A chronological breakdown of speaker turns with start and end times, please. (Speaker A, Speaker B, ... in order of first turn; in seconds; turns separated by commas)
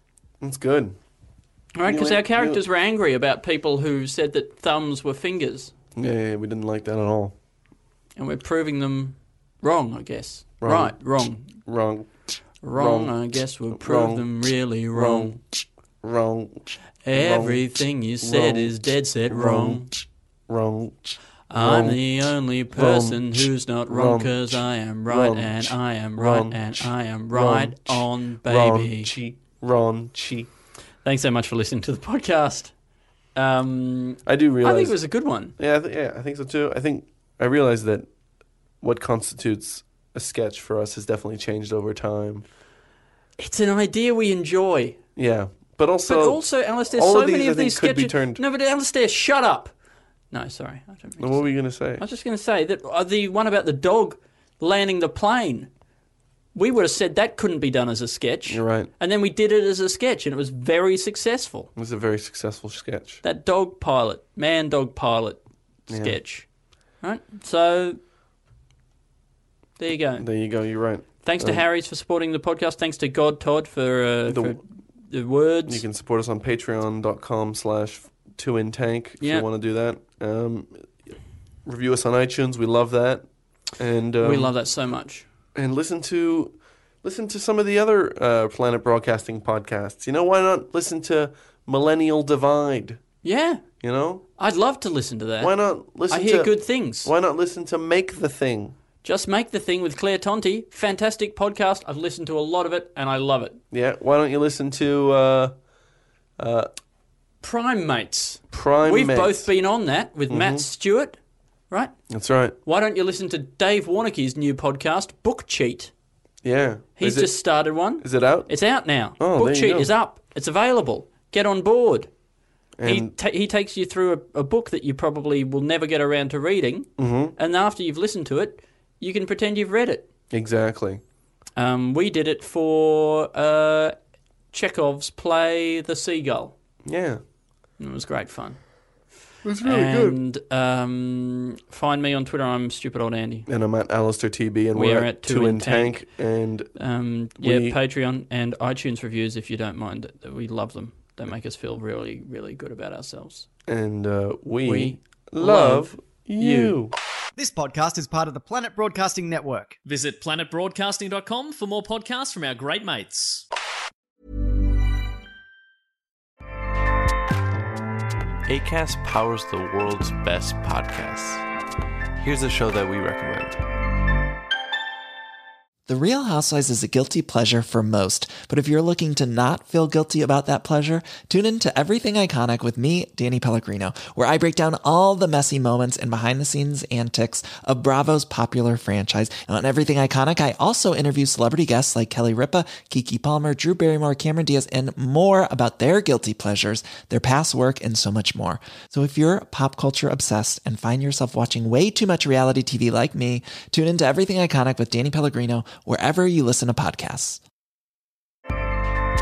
Speaker A: 0.4-1.0, Speaker B: 1.8-5.7, Speaker A: 1.9-2.6, Speaker A: 6.0-7.3, Speaker B: 8.2-11.5, Speaker A: 10.6-11.0, Speaker A: 11.5-12.1, Speaker B: 12.6-15.3, Speaker A: 12.7-13.2, Speaker A: 13.7-14.3, Speaker A: 14.9-15.4, Speaker A: 16.0-17.6, Speaker B: 17.1-19.9, Speaker A: 18.2-18.8, Speaker A: 19.3-19.9, Speaker A: 20.5-22.0, Speaker B: 21.5-29.1, Speaker A: 22.7-30.5, Speaker B: 31.0-32.7, Speaker B: 33.4-35.5, Speaker A: 34.3-35.0, Speaker A: 35.6-38.1, Speaker A: 38.8-42.5, Speaker B: 43.4-45.0, Speaker A: 45.2-48.4, Speaker B: 46.1-49.7, Speaker B: 50.3-51.5, Speaker A: 51.2-52.0, Speaker B: 52.0-55.7, Speaker B: 56.5-61.7, Speaker A: 58.5-58.9, Speaker A: 61.8-63.2, Speaker B: 63.2-66.5, Speaker A: 65.9-66.2, Speaker B: 67.0-68.0, Speaker B: 69.8-70.3, Speaker A: 70.2-71.6, Speaker B: 71.2-75.8, Speaker A: 74.3-74.6, Speaker A: 75.7-80.9, Speaker B: 79.2-79.5, Speaker A: 81.7-84.5, Speaker B: 84.2-85.3, Speaker A: 85.5-93.0, Speaker B: 93.2-93.6, Speaker A: 93.8-94.2, Speaker B: 94.4-95.5, Speaker A: 95.4-98.8, Speaker B: 96.1-97.1, Speaker B: 99.0-103.6, Speaker A: 103.7-105.5, Speaker A: 106.4-106.7, Speaker B: 107.4-111.2, Speaker A: 108.5-109.5, Speaker A: 110.3-110.7, Speaker A: 112.1-112.6, Speaker B: 112.7-115.9, Speaker A: 116.4-117.4, Speaker B: 117.0-122.1, Speaker A: 118.0-118.5, Speaker A: 119.2-119.9, Speaker A: 122.8-123.1, Speaker B: 122.8-130.1, Speaker A: 127.0-127.4, Speaker A: 130.3-131.0, Speaker B: 131.6-133.9, Speaker B: 134.5-136.6, Speaker A: 136.8-137.2, Speaker B: 137.8-138.6, Speaker A: 139.4-140.2, Speaker B: 139.6-143.5, Speaker A: 143.5-146.7, Speaker B: 144.7-146.0, Speaker B: 146.8-153.4, Speaker A: 147.4-147.8, Speaker A: 153.7-156.9, Speaker B: 154.7-156.8, Speaker C: 157.4-159.8, Speaker D: 159.9-163.4, Speaker E: 168.5-171.4, Speaker E: 172.2-173.6, Speaker F: 175.9-207.4